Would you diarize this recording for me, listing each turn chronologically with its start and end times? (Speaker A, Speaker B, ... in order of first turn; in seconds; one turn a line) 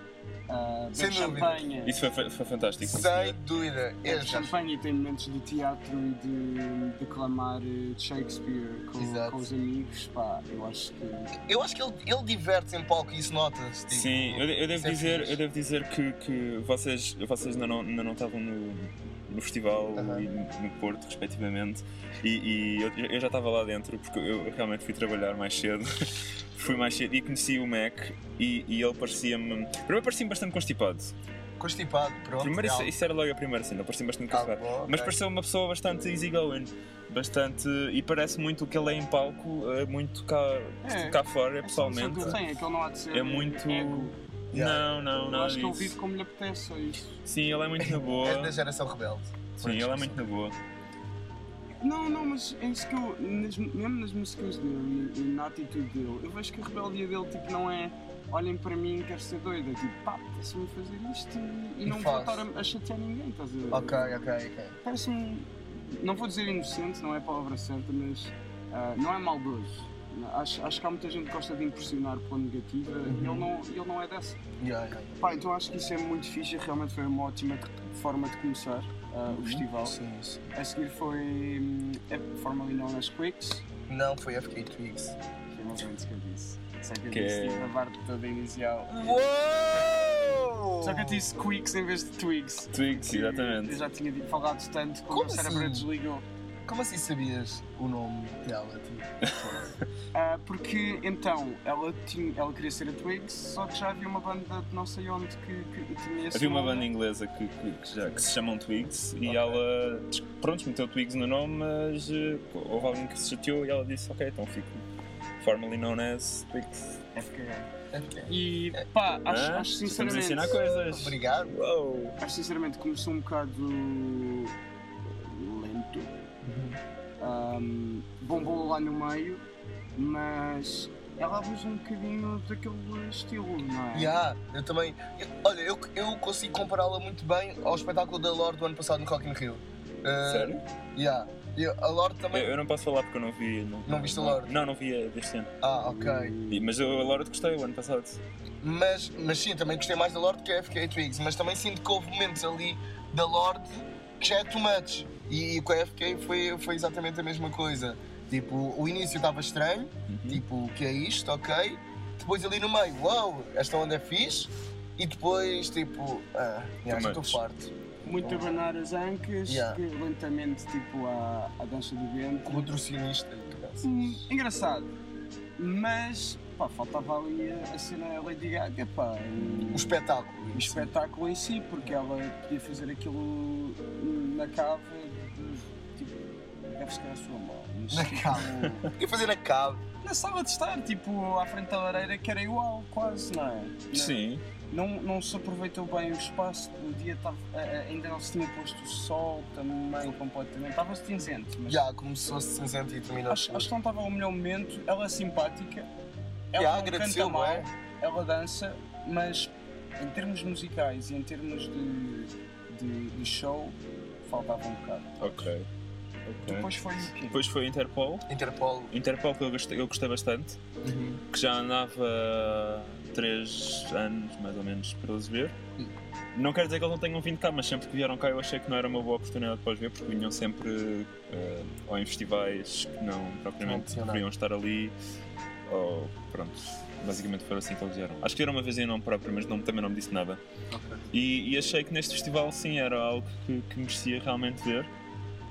Speaker A: 0.5-2.0
Speaker B: 0.9-1.7
Speaker C: 1.8-3.4
Speaker B: 2.8-4.6
Speaker A: 4.0-11.4
Speaker B: 9.0-9.5
Speaker B: 11.4-15.4
Speaker C: 13.9-31.1
Speaker B: 19.9-20.3
Speaker B: 31.6-32.9
Speaker C: 32.4-42.4
Speaker B: 34.3-35.2
Speaker A: 40.8-44.1
Speaker C: 43.1-46.0
Speaker B: 44.5-45.0
Speaker A: 45.2-47.2
Speaker C: 47.2-48.5
Speaker B: 47.8-50.2
Speaker C: 49.6-50.5
Speaker A: 51.8-64.1
Speaker B: 61.9-62.4
Speaker B: 63.7-64.8
Speaker A: 64.8-74.4
Speaker B: 73.1-73.5
Speaker B: 74.6-75.2
Speaker A: 75.2-80.0
Speaker C: 79.3-79.6
Speaker B: 79.8-80.5
Speaker A: 80.5-83.7
Speaker B: 83.9-85.2
Speaker A: 85.5-89.3
Speaker C: 87.1-87.7
Speaker B: 88.9-91.5
Speaker A: 90.8-96.2
Speaker C: 92.7-93.8
Speaker B: 95.1-95.9
Speaker B: 96.7-99.7
Speaker C: 99.2-99.8
Speaker A: 100.1-106.9
Speaker C: 106.3-114.8
Speaker B: 109.3-109.6
Speaker C: 115.4-117.0
Speaker A: 117.1-117.7
Speaker B: 117.9-118.8
Speaker A: 118.3-120.6
Speaker C: 119.3-122.2
Speaker B: 120.7-121.5
Speaker A: 122.2-126.1
Speaker B: 126.4-126.8
Speaker A: 127.2-129.4
Speaker A: 130.0-134.2
Speaker B: 133.9-142.5
Speaker C: 140.2-140.6
Speaker C: 142.3-145.5
Speaker B: 143.8-144.5
Speaker B: 145.6-146.4
Speaker A: 145.7-146.7
Speaker C: 146.5-148.2
Speaker B: 148.6-168.6
Speaker C: 160.1-160.4
Speaker C: 166.9-167.4
Speaker A: 168.0-172.7
Speaker B: 169.5-169.8
Speaker B: 172.4-174.3
Speaker A: 173.8-174.9
Speaker A: 175.6-188.9
Speaker B: 179.6-180.9
Speaker B: 187.9-189.8
Speaker A: 190.0-201.8
Speaker C: 193.9-194.4
Speaker B: 201.7-203.7
Speaker A: 203.3-205.9
Speaker A: 206.5-215.5
Speaker B: 206.6-207.7
Speaker C: 215.2-215.7
Speaker C: 216.3-218.3
Speaker A: 216.4-217.4
Speaker B: 218.3-218.9
Speaker C: 218.9-220.6
Speaker B: 220.8-221.2
Speaker C: 221.3-225.6
Speaker C: 226.3-234.9
Speaker B: 233.6-234.2
Speaker C: 235.7-240.4
Speaker B: 240.7-241.1
Speaker C: 241.1-244.9